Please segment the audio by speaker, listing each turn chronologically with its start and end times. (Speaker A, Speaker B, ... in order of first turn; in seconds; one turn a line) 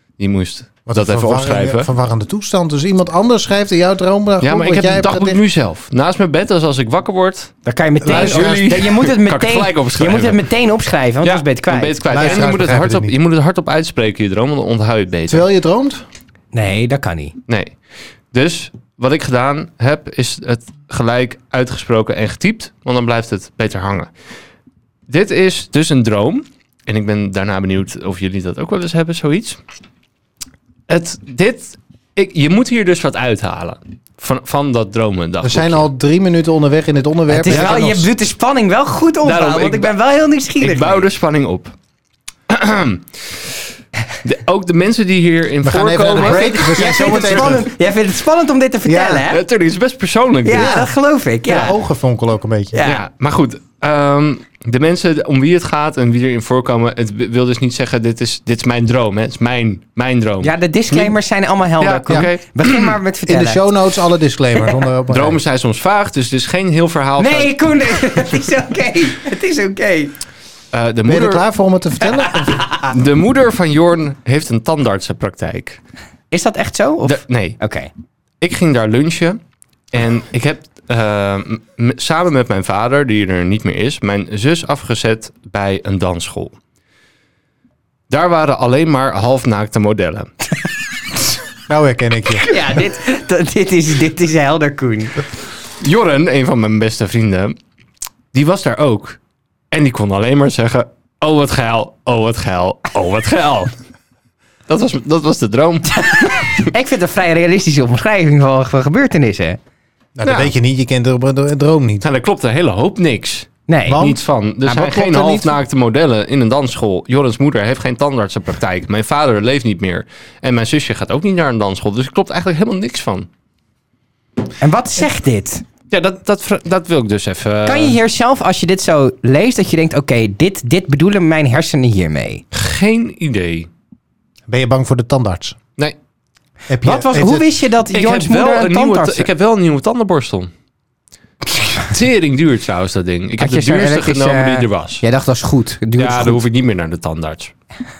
Speaker A: 0.2-1.9
Speaker B: 0.8-5.4
Speaker A: 4.4-10.4
Speaker C: 7.6-11.9
Speaker B: 8.0-8.8
Speaker A: 11.2-15.4
Speaker B: 12.1-13.2
Speaker B: 15.3-16.0
Speaker C: 16.5-17.4
Speaker A: 17.5-17.7
Speaker A: 18.3-24.1
Speaker A: 25.1-29.6
Speaker A: 30.9-35.9
Speaker B: 35.4-38.1
Speaker C: 37.3-41.0
Speaker A: 37.5-37.9
Speaker A: 39.2-39.9
Speaker A: 40.6-41.7
Speaker A: 42.5-43.4
Speaker A: 44.2-47.3
Speaker B: 45.6-47.7
Speaker C: 46.1-49.4
Speaker B: 48.8-49.2
Speaker A: 49.3-50.9
Speaker C: 50.4-51.8
Speaker B: 50.5-50.9
Speaker B: 51.4-52.8
Speaker C: 52.7-53.0
Speaker A: 52.8-61.1
Speaker C: 60.4-63.7
Speaker A: 61.8-63.0
Speaker B: 63.2-65.4
Speaker A: 65.1-68.2
Speaker C: 67.2-70.1
Speaker A: 70.7-71.4
Speaker B: 71.0-72.7
Speaker A: 72.8-75.8
Speaker C: 76.3-77.9
Speaker A: 77.0-77.6
Speaker A: 78.4-79.4
Speaker A: 79.9-86.5
Speaker A: 88.1-90.3
Speaker B: 91.7-92.5
Speaker C: 92.4-95.2
Speaker A: 95.8-97.5
Speaker A: 98.3-99.2
Speaker A: 99.7-103.7
Speaker A: 104.7-106.5
Speaker C: 106.0-109.6
Speaker B: 110.2-112.0
Speaker A: 110.2-110.5
Speaker A: 112.0-123.3
Speaker C: 113.7-114.0
Speaker B: 113.9-115.5
Speaker C: 124.6-125.6
Speaker A: 125.9-128.0
Speaker C: 127.7-132.4
Speaker A: 132.5-133.7
Speaker B: 134.5-135.6
Speaker B: 136.7-137.5
Speaker C: 136.8-139.3
Speaker A: 137.9-140.5
Speaker A: 141.6-145.0
Speaker C: 143.4-146.4
Speaker A: 146.0-147.5